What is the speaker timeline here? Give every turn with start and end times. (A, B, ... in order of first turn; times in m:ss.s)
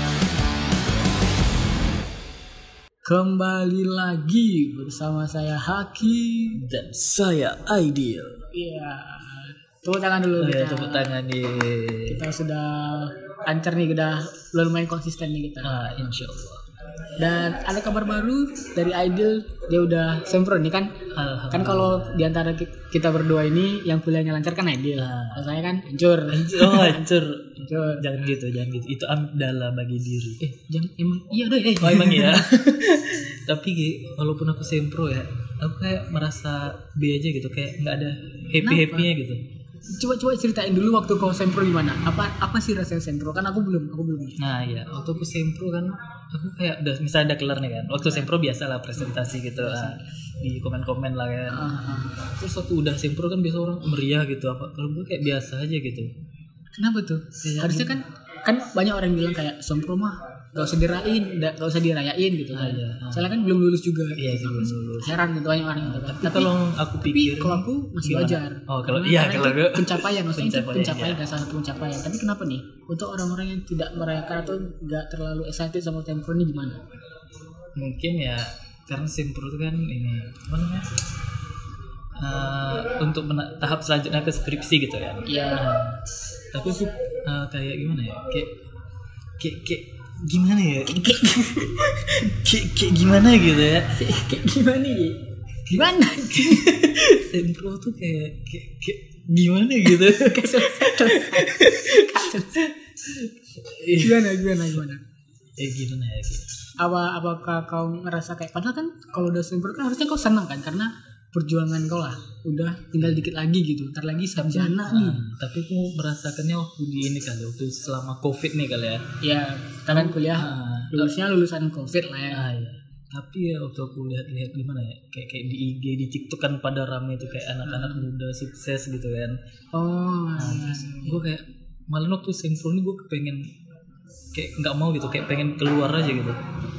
0:03.0-0:06.6 A
0:06.5-0:08.4 B
0:08.5-0:11.1 A
0:10.4-0:12.2 B
0:12.1-0:16.2 A
0:15.6-0:16.6 B
0:17.2-0:27.1 A
0:21.1-0:22.3 B
0:25.0-0:25.5 B
0:26.3-0:30.4 B
0:27.6-0:28.0 A
0:30.4-0:32.8 A
0:31.8-0:39.4 B
0:38.6-0:39.1 A
0:39.9-0:44.4 A
0:44.4-0:56.1 B
0:49.4-0:50.0 A
0:51.5-0:52.3 A
0:56.8-1:16.8 A
0:57.4-0:58.0 B
1:02.5-1:03.3 B
1:04.2-1:05.2 B
1:05.7-1:11.2 B
1:17.7-1:20.9 B
1:22.2-1:28.5 B
1:25.2-1:25.7 A
1:29.4-1:33.9 B
1:30.9-1:32.2 A
1:34.0-1:36.8 A
1:36.3-1:44.6 B
1:39.8-1:42.6 A
1:44.0-1:45.0 A
1:45.6-1:46.5 B
1:46.8-1:55.2 A
1:54.4-1:59.0 B
1:59.2-2:02.5 A
1:59.9-2:01.1 B
2:02.3-2:09.4 B
2:07.6-2:08.1 A
2:09.7-2:11.2 A
2:10.4-2:13.4 B
2:14.3-2:16.4 B